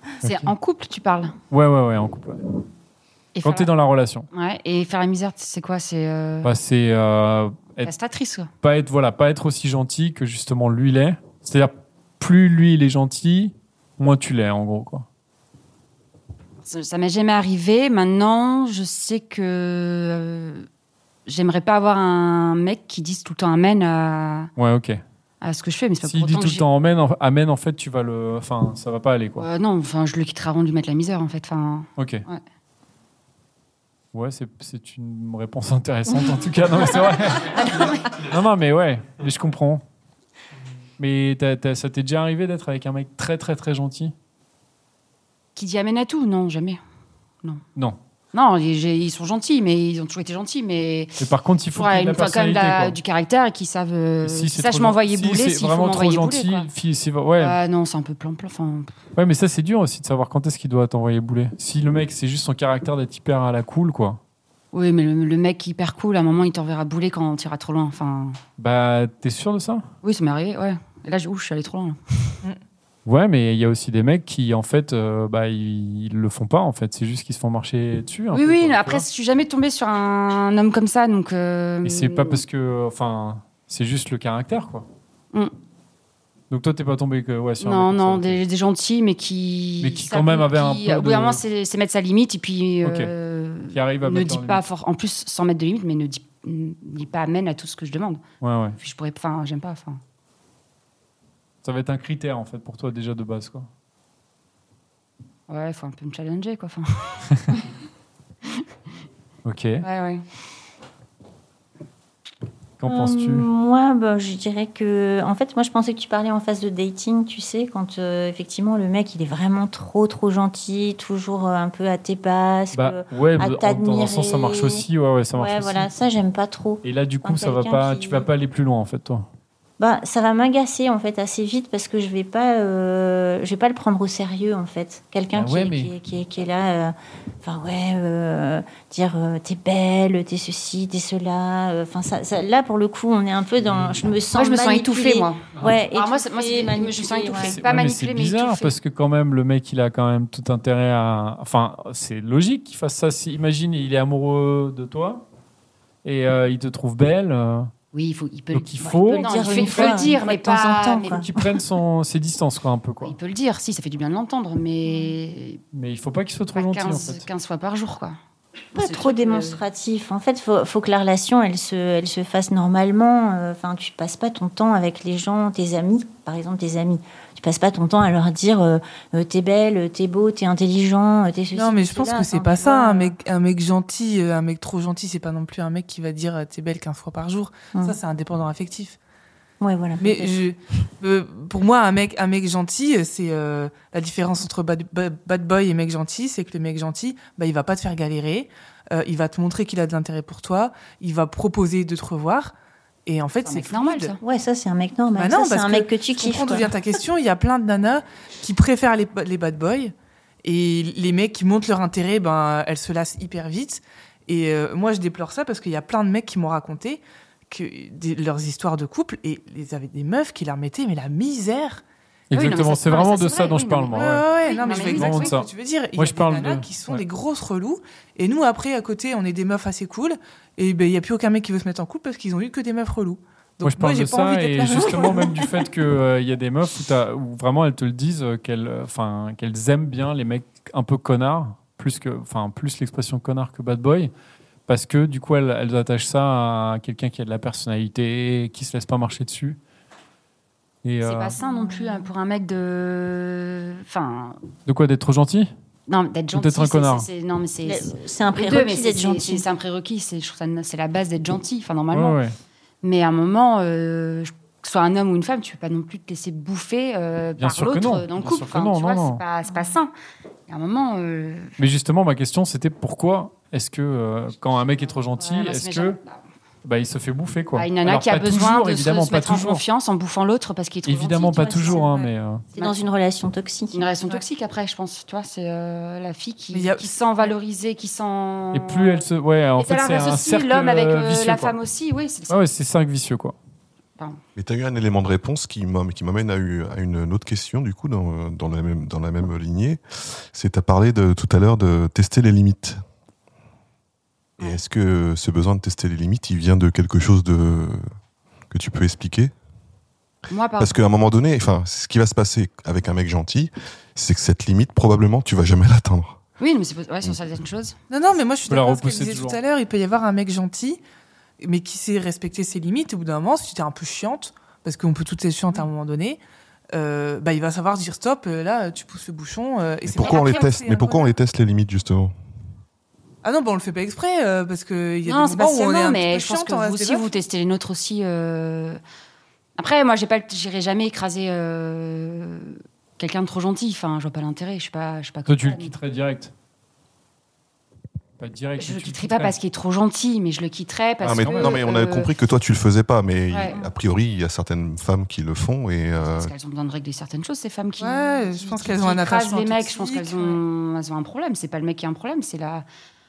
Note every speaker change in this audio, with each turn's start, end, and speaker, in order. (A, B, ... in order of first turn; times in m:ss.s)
0:00.2-0:00.5 A
0:00.2-0:01.3 B
0:01.5-0:02.4 A
0:03.3-0:03.7 B
0:03.4-0:04.3 A
0:04.3-0:06.5 B
0:06.4-0:07.9 A
0:07.8-0:08.5 B
0:08.6-0:15.0 A
0:16.6-0:20.7 B
0:21.2-0:24.5 B
0:24.6-0:25.0 A
0:25.4-0:26.6 B
0:26.0-0:29.5 A
0:29.4-0:32.4 B
0:32.0-0:32.2 A
0:34.1-0:39.8 A
0:37.6-0:37.9 B
0:41.0-0:44.1 A
0:45.6-0:46.8 B
0:48.3-0:51.2 B
0:51.2-0:53.0 A
0:51.7-0:56.7 B
0:54.2-0:57.6 A
0:57.4-0:58.9 B
0:59.2-1:04.2 A
1:04.7-1:08.4 B
1:08.6-1:09.8 A
1:10.0-1:12.4 B
1:13.0-1:19.0 A
1:18.3-1:22.4 B
1:21.8-1:24.9 A
1:26.5-1:28.4 A
1:27.6-1:38.2 B
1:29.8-1:31.4 A
1:32.8-1:33.1 A
1:33.7-1:34.6 A
1:38.4-1:38.8 A
1:38.8-1:40.0 B
1:41.6-1:43.7 A
1:45.5-1:47.6 B
1:49.4-1:49.8 A
1:49.8-1:50.2 B
1:52.8-1:53.5 A
1:52.8-2:08.3 C
2:02.7-2:05.9 A
2:06.8-2:09.2 A
2:09.8-2:27.6 C
2:15.3-2:15.9 A
2:23.7-2:24.0 A
2:24.3-2:28.8 B
2:27.4-2:35.2 A
2:36.0-2:37.7 A
2:37.9-2:41.2 B
2:38.5-2:40.1 A
2:38.8-2:41.6 C
2:41.2-2:43.2 A
2:43.0-2:45.6 B
2:44.9-2:45.1 C
2:45.7-2:47.3 A
2:46.5-2:48.1 B
2:48.7-2:49.6 B
2:48.7-3:03.2 C
3:01.5-3:09.0 D
3:07.7-3:08.0 C
3:09.6-3:10.4 C
3:10.0-3:22.5 D
3:23.0-3:24.1 D
3:23.4-3:24.2 B
3:24.2-3:26.8 C
3:25.1-3:41.8 D
3:42.3-3:44.3 A
3:42.3-3:45.4 B
3:44.0-3:55.4 D
3:44.9-3:47.0 A
3:53.6-4:04.1 A
4:04.7-4:09.6 A
4:10.8-4:11.4 A
4:11.0-4:14.4 B
4:11.4-4:12.1 C
4:14.6-4:15.5 A
4:15.9-4:22.2 B
4:16.3-4:17.1 A
4:17.6-4:19.4 C
4:21.9-4:22.3 A
4:22.8-4:29.9 B
4:27.4-4:29.2 A
4:30.5-4:31.5 B
4:31.6-4:36.0 A
4:35.2-4:36.2 B
4:36.6-4:39.6 A
4:37.5-4:41.8 B
4:40.8-4:42.4 A
4:41.2-4:43.8 C
4:43.7-4:49.0 B
4:46.5-4:47.3 D
4:48.5-4:51.6 A
4:49.6-4:52.4 B
4:52.3-4:53.4 A
4:54.4-4:59.8 E
5:00.3-5:02.8 E
5:04.4-5:07.8 E
5:08.5-5:09.3 E
5:10.3-5:10.8 B
5:10.6-5:16.2 E
5:16.4-5:17.7 B
5:17.9-5:20.8 D
5:18.5-5:19.4 A
5:21.4-5:31.1 D
5:29.8-5:32.1 E
5:30.0-5:30.6 B
5:33.2-5:37.2 D
5:35.0-5:38.8 B
5:39.6-5:45.7 B
5:45.2-5:46.3 A
5:48.2-5:49.4 A
5:48.6-5:52.1 B
5:51.0-5:51.6 A
5:51.0-5:56.3 E
5:53.3-5:53.6 B
5:53.5-5:53.7 C
5:56.0-6:02.6 B
5:57.8-6:00.4 D